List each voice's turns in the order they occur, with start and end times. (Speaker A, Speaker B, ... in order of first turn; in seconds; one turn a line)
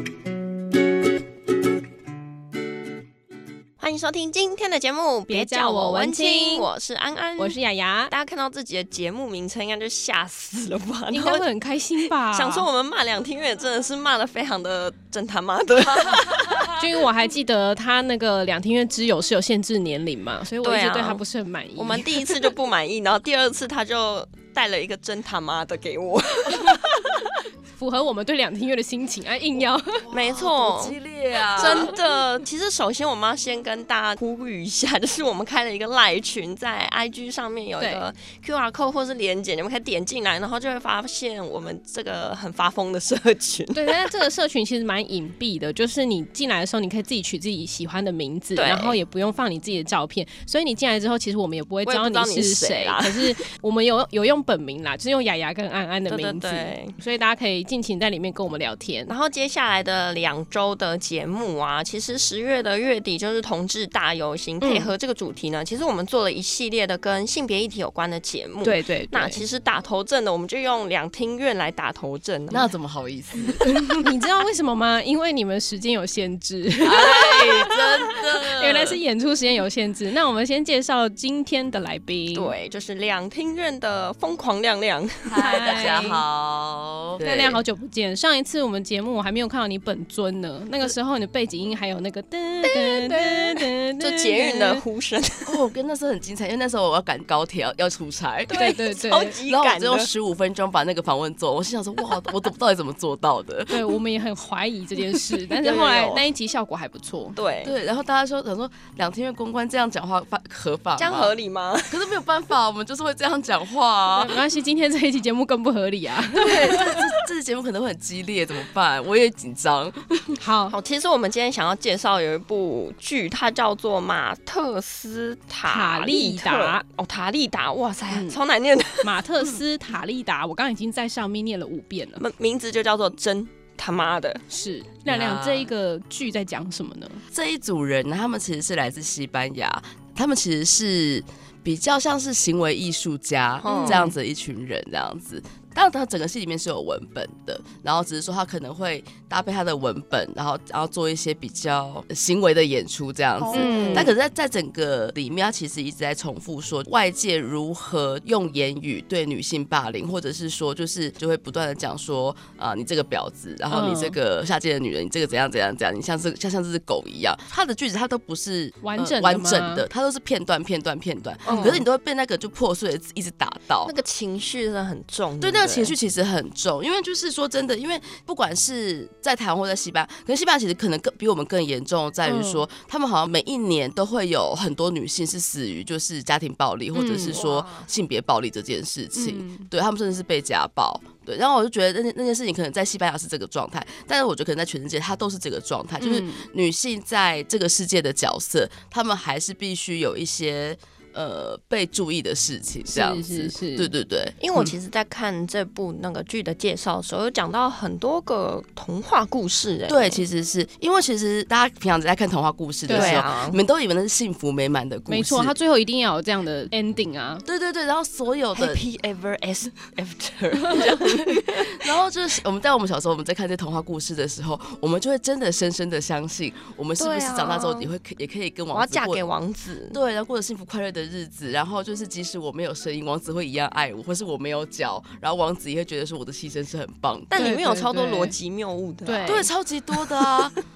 Speaker A: 3.8-7.6
Speaker B: 5.3-6.7
Speaker B: 7.4-8.1
Speaker A: 8.1-16.7
Speaker B: 11.1-12.7
Speaker B: 16.8-22.5
Speaker A: 20.6-21.2
Speaker A: 21.8-27.3
Speaker B: 27.7-30.1
Speaker C: 30.0-31.9
Speaker A: 30.1-44.0
Speaker B: 37.8-38.1
Speaker B: 43.7-59.1
Speaker A: 48.5-49.0
Speaker A: 51.8-53.4
Speaker A: 56.1-57.0
Speaker A: 59.1-72.7
Speaker B: 64.6-64.9
Speaker B: 68.6-69.4
Speaker C: 72.5-74.1
Speaker B: 74.0-82.5
Speaker C: 76.8-79.0
Speaker A: 82.3-86.0
Speaker C: 85.3-87.6
Speaker B: 85.4-86.2
Speaker B: 87.2-94.8
Speaker A: 92.6-95.6
Speaker C: 95.4-98.8
Speaker A: 98.5-100.1
Speaker B: 98.5-99.4
Speaker C: 99.5-104.0
Speaker B: 103.7-107.4
Speaker A: 105.5-106.2
Speaker A: 107.3-107.7
Speaker C: 107.6-111.3
Speaker A: 111.0-112.0
Speaker C: 111.9-114.4
Speaker B: 114.1-116.8
Speaker C: 116.3-120.4
Speaker B: 120.4-120.8
Speaker A: 120.7-129.2
Speaker B: 125.6-126.8
Speaker B: 128.1-128.4
Speaker B: 129.0-132.2
Speaker A: 132.2-134.4
Speaker B: 134.5-137.2
Speaker C: 135.1-135.7
Speaker C: 137.3-173.9
Speaker A: 143.6-144.1
Speaker B: 143.6-144.1
Speaker A: 153.4-154.1
Speaker B: 153.5-154.1
Speaker B: 163.7-164.2
Speaker B: 168.8-169.8
Speaker A: 171.4-171.8
Speaker A: 173.8-175.9
Speaker C: 175.4-204.7
Speaker B: 182.2-182.7
Speaker B: 186.9-187.4
Speaker A: 187.3-187.9
Speaker B: 189.1-189.7
Speaker B: 196.0-196.4
Speaker B: 202.9-203.9
Speaker A: 204.4-210.3
Speaker C: 209.9-215.5
Speaker B: 212.9-213.2
Speaker A: 212.9-213.6
Speaker B: 215.1-217.4
Speaker C: 217.4-218.8
Speaker A: 218.5-221.8
Speaker C: 220.7-229.2
Speaker A: 227.0-227.9
Speaker A: 228.7-230.0
Speaker C: 229.9-237.4
Speaker A: 237.3-239.5
Speaker B: 237.3-238.3
Speaker B: 239.0-239.5
Speaker C: 239.2-240.6